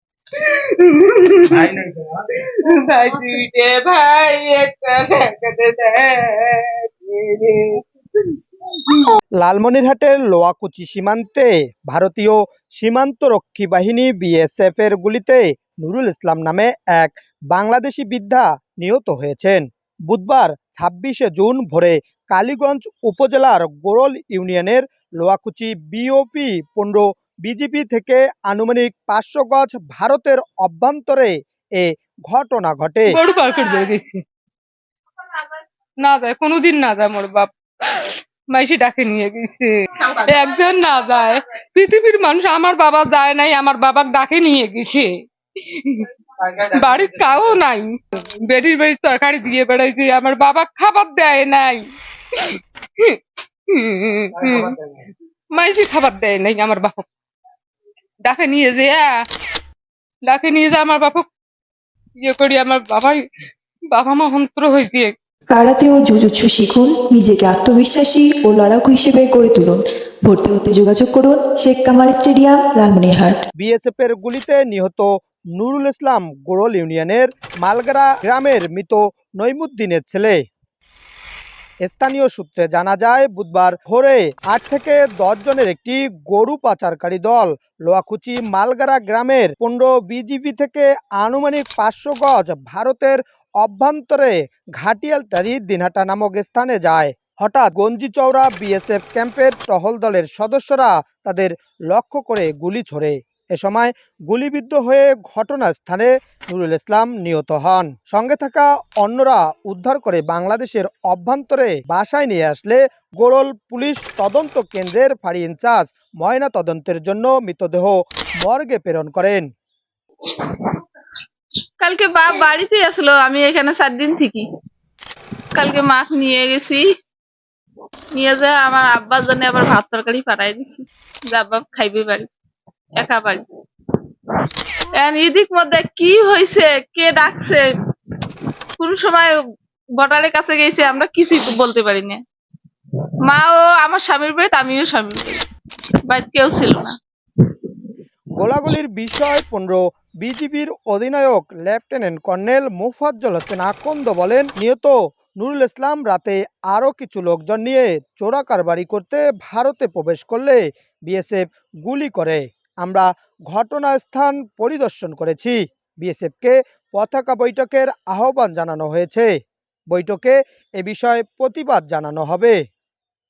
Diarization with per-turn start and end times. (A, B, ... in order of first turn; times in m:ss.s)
0:00.4-0:08.3 A
0:09.4-0:33.2 B
0:33.1-0:34.2 A
0:36.0-0:45.1 A
0:45.6-0:51.8 A
0:52.4-0:53.2 A
0:53.7-0:54.8 A
0:55.6-0:57.0 A
0:58.3-0:59.1 A
1:00.3-1:01.3 A
1:02.2-1:03.2 A
1:03.9-1:05.1 A
1:05.5-1:13.4 C
1:13.6-1:20.4 B
1:21.8-1:59.4 B
2:01.8-2:04.4 D
2:05.6-2:06.8 D
2:08.2-2:12.3 D
2:13.0-2:13.4 D
2:15.0-2:17.6 D
2:18.8-2:19.3 D
2:20.0-2:22.2 D
2:23.2-2:25.4 D
2:26.1-2:26.9 D
2:28.4-2:49.3 B
2:49.9-2:52.6 B